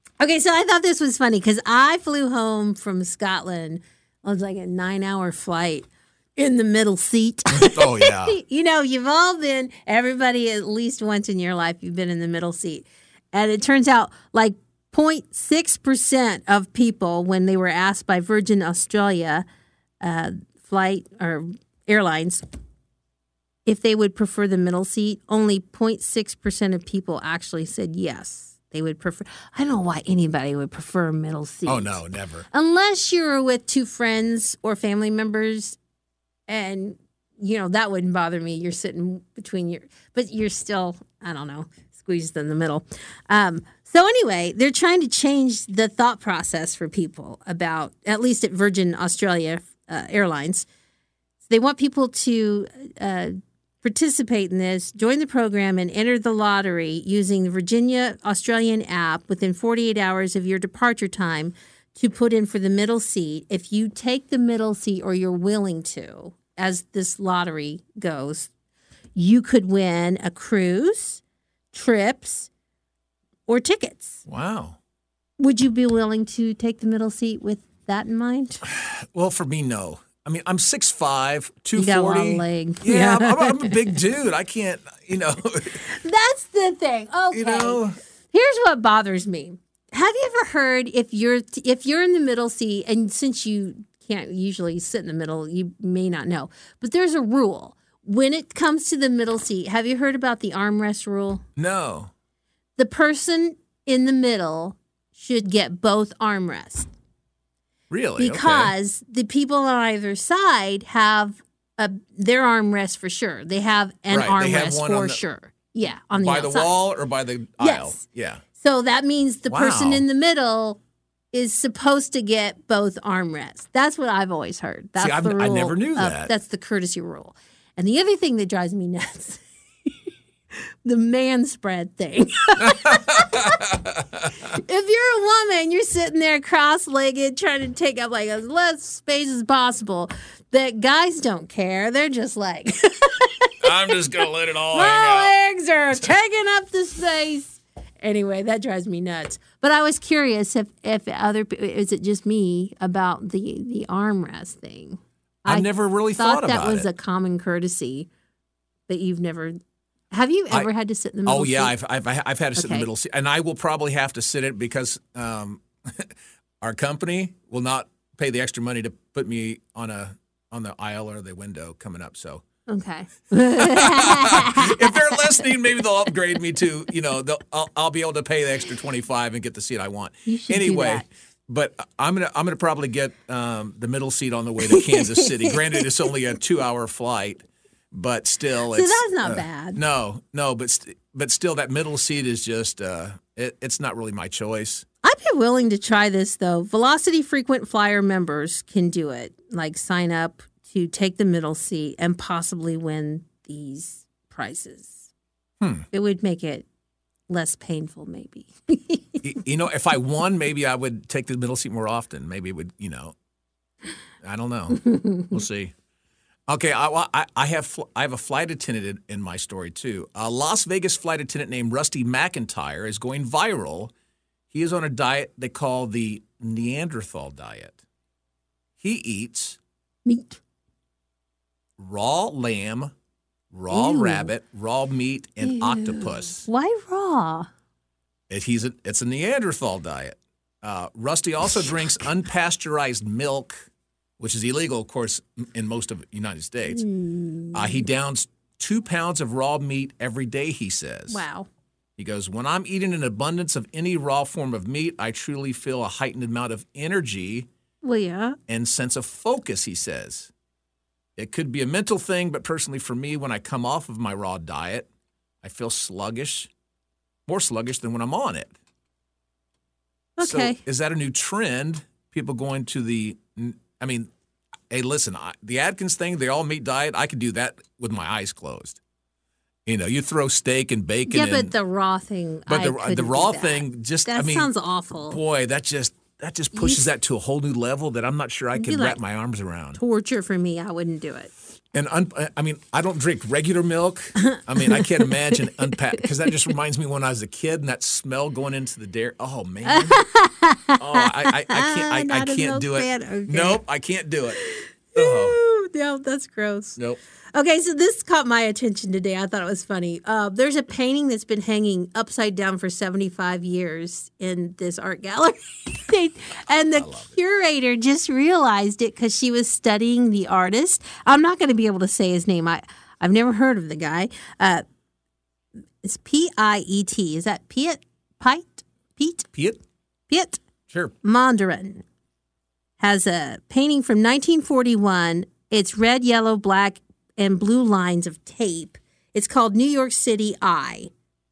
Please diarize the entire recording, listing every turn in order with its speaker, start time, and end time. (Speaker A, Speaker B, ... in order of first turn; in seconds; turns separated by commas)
Speaker A: 0.2-19.4, Speaker B: 7.5-8.4, Speaker A: 20.0-22.4, Speaker A: 23.6-32.0, Speaker B: 31.6-32.5, Speaker A: 32.5-35.8, Speaker A: 36.5-50.6, Speaker A: 51.5-68.5, Speaker A: 69.1-71.2, Speaker A: 71.7-72.5, Speaker A: 73.5-74.2, Speaker B: 74.2-74.8, Speaker A: 75.4-78.6, Speaker B: 78.6-85.8, Speaker A: 81.8-84.0, Speaker A: 85.8-101.4, Speaker B: 87.3-88.0, Speaker B: 101.5-102.1, Speaker A: 102.8-106.9, Speaker B: 107.9-108.7, Speaker A: 108.2-116.7, Speaker B: 114.1-115.2, Speaker B: 116.1-118.4, Speaker A: 117.6-118.0, Speaker A: 118.6-120.8, Speaker B: 119.5-120.0, Speaker A: 121.3-129.4, Speaker B: 125.0-126.3, Speaker A: 130.8-133.5, Speaker B: 132.6-134.3, Speaker A: 134.5-158.1, Speaker B: 143.6-145.3, Speaker B: 155.4-156.9, Speaker A: 158.9-159.6, Speaker A: 160.1-161.7, Speaker B: 161.2-172.4, Speaker A: 162.6-162.9, Speaker A: 172.7-175.4, Speaker B: 173.6-194.8, Speaker A: 180.2-181.1, Speaker A: 184.7-185.8, Speaker A: 188.7-189.8, Speaker A: 195.0-205.1, Speaker B: 205.6-205.9, Speaker A: 205.9-206.7, Speaker A: 207.3-209.2, Speaker B: 209.2-213.1, Speaker B: 214.2-215.7, Speaker B: 216.5-223.9, Speaker B: 224.5-227.8, Speaker B: 228.8-229.6, Speaker A: 230.0-230.4, Speaker B: 231.8-232.9, Speaker B: 233.5-236.5, Speaker A: 233.7-234.3, Speaker A: 235.4-237.5, Speaker B: 238.3-243.7, Speaker B: 244.2-246.8, Speaker A: 246.7-247.9, Speaker B: 247.5-251.2, Speaker A: 251.1-251.5, Speaker B: 252.0-257.5, Speaker A: 257.8-258.4, Speaker B: 258.5-260.3, Speaker B: 261.2-264.9, Speaker B: 265.4-266.5, Speaker B: 267.3-268.5, Speaker A: 270.2-270.6, Speaker B: 270.2-274.1, Speaker B: 274.7-278.8, Speaker B: 279.6-281.5, Speaker A: 281.1-285.2, Speaker B: 282.5-284.5, Speaker B: 285.1-289.8, Speaker A: 286.5-286.9, Speaker A: 288.5-289.0, Speaker A: 289.8-291.3, Speaker B: 291.7-300.0, Speaker A: 294.3-295.5, Speaker A: 299.7-303.6, Speaker B: 300.8-304.4, Speaker A: 304.3-306.8, Speaker B: 304.9-305.4, Speaker A: 307.3-324.6, Speaker B: 316.7-317.1, Speaker A: 325.8-329.3, Speaker B: 329.3-329.6, Speaker A: 330.1-330.4, Speaker B: 330.7-330.9, Speaker A: 331.0-331.8, Speaker A: 332.8-340.9